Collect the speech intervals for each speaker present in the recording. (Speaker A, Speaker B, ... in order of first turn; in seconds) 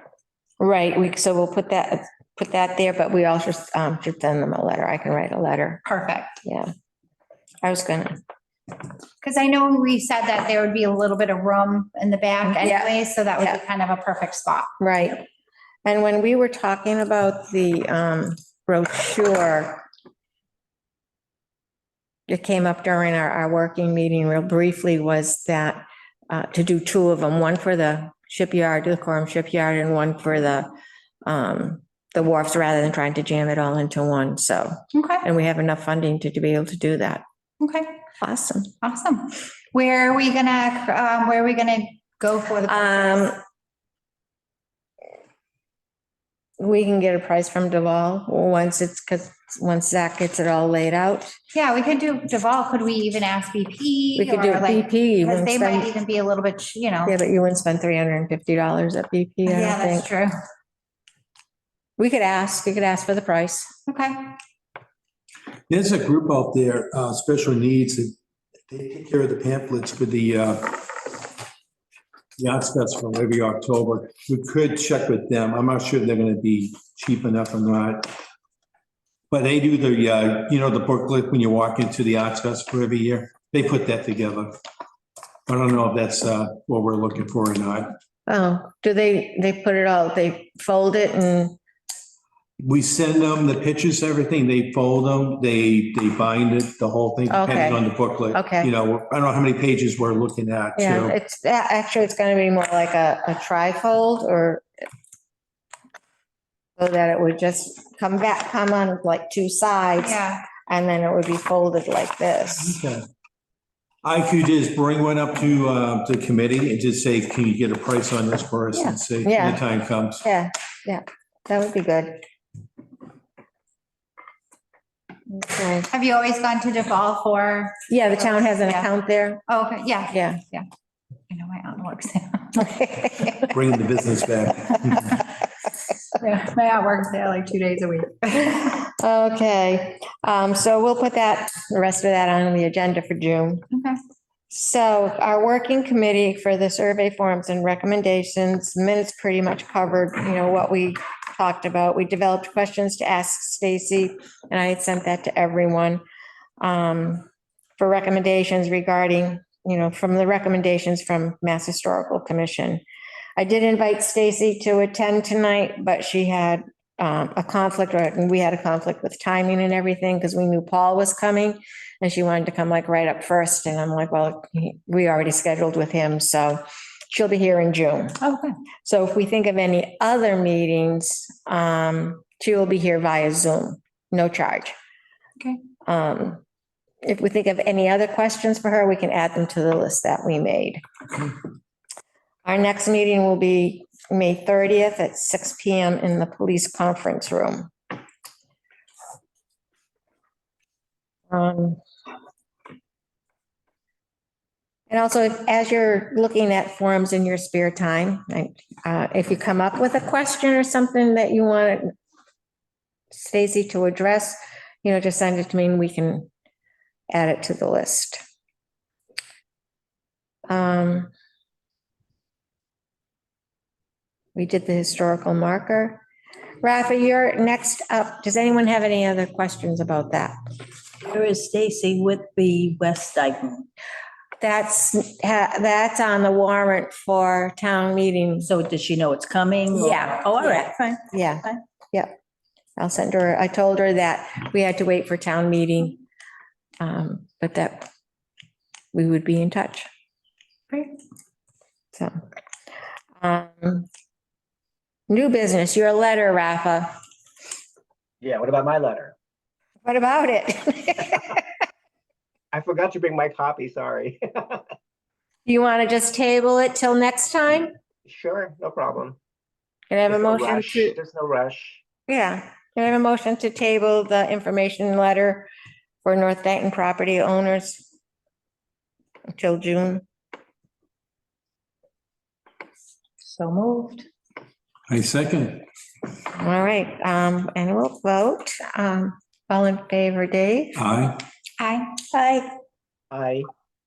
Speaker A: 0.6-5.8, 6.4-6.7, 7.6-8.2, 12.6-13.6, 14.8-15.2, 15.8-19.8, 22.3-30.7, 31.2-37.2, 38.2-38.7, 42.7-43.4, 46.6-51.3, 54.2-55.9, 57.1-60.1, 62.0-63.7, 88.3-91.6, 97.3-98.7, 100.8-104.6, 106.8-112.8, 118.8-119.6, 120.2-122.2, 125.3-125.9, 127.9-129.4, 130.1-130.4, 132.6-133.5, 138.4-143.6, 144.5-156.0, 156.6-157.3, 157.8-162.8, 163.4-178.2, 178.8-184.8, 185.9-186.4, 187.0-191.2, 192.4-197.7, 201.3-201.8, 204.9-211.9, 213.1-216.3, 217.1-218.2, 220.5-221.1, 224.3-226.0, 226.6-230.3, 234.4-238.5, 239.8-242.1, 242.8-246.0, 246.8-247.9, 248.9-249.9, 253.2-253.9, 255.1-257.0, 259.9-261.4, 265.5-267.8, 269.9-271.0, 272.1-275.5, 276.0-277.9, 279.3-280.0, 286.4-290.8
Speaker B: 5.8-6.4, 9.2-14.7, 34.9-35.2, 37.6-37.9, 38.8-43.2, 51.5-57.2, 59.5-60.3, 63.9-64.3, 110.0-110.5, 125.9-127.8, 128.5-128.9, 129.5-130.7, 131.3-132.7, 136.2-138.6, 143.7-144.0, 178.2-178.5, 291.6-292.0
Speaker C: 65.7-68.1, 68.7-71.3, 72.4-78.1, 79.3-84.6, 85.5-88.0, 92.6-101.2, 112.6-113.0, 114.0-120.2, 133.5-135.2, 284.9-285.6, 290.8-291.2
Speaker D: 231.1-233.7, 238.4-241.6, 283.3-284.1, 292.1-292.5
Speaker E: 258.2-259.1, 262.5-264.6, 268.1-269.2, 270.1-271.8, 293.1-293.5